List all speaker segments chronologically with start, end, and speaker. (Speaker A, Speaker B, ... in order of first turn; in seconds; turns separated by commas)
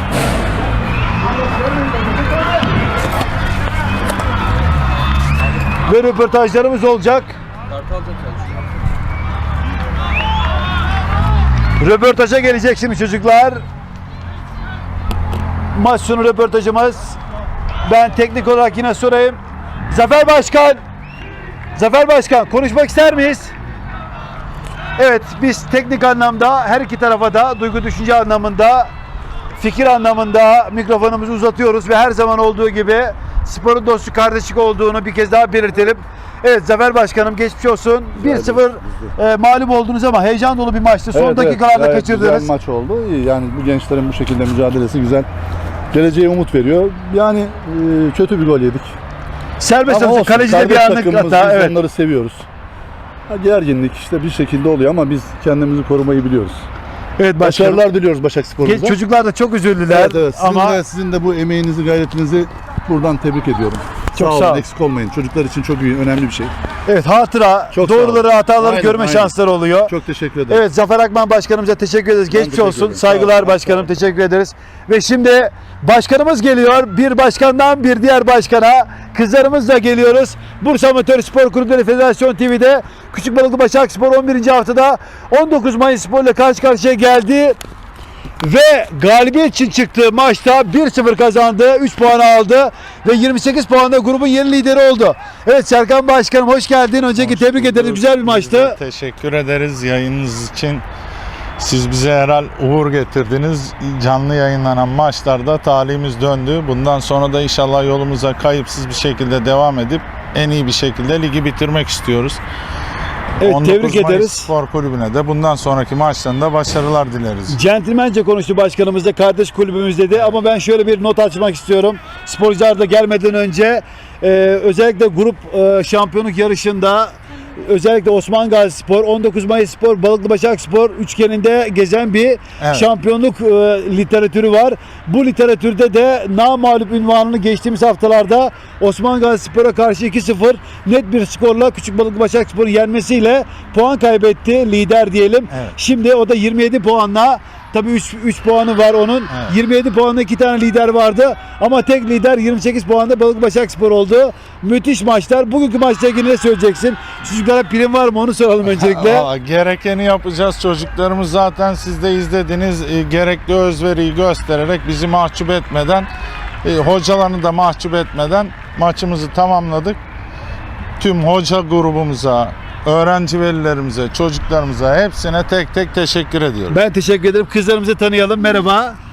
Speaker A: 5.9-7.3, Speaker A: 11.8-13.6, Speaker A: 15.7-17.2, Speaker A: 17.9-19.4, Speaker A: 19.9-20.8, Speaker A: 21.8-23.5, Speaker A: 25.0-28.9, Speaker A: 29.6-42.5, Speaker B: 38.2-38.7, Speaker B: 41.1-45.3, Speaker B: 45.9-49.0, Speaker A: 49.6-51.8, Speaker B: 49.9-52.5, Speaker B: 53.3-56.6, Speaker A: 57.2-57.8, Speaker B: 57.4-59.0, Speaker A: 58.6-60.8, Speaker B: 59.9-66.5, Speaker A: 64.2-64.6, Speaker A: 66.9-69.9, Speaker B: 67.7-69.3, Speaker B: 69.9-70.6, Speaker A: 70.5-87.6, Speaker B: 72.3-73.8, Speaker A: 88.4-98.8, Speaker C: 97.2-100.8, Speaker C: 101.6-112.4, Speaker A: 113.4-114.5, Speaker C: 113.4-117.6, Speaker A: 117.5-159.3, Speaker C: 132.6-132.9, Speaker C: 158.7-166.1, Speaker C: 166.6-170.0, Speaker C: 171.0-176.8, Speaker A: 176.7-179.0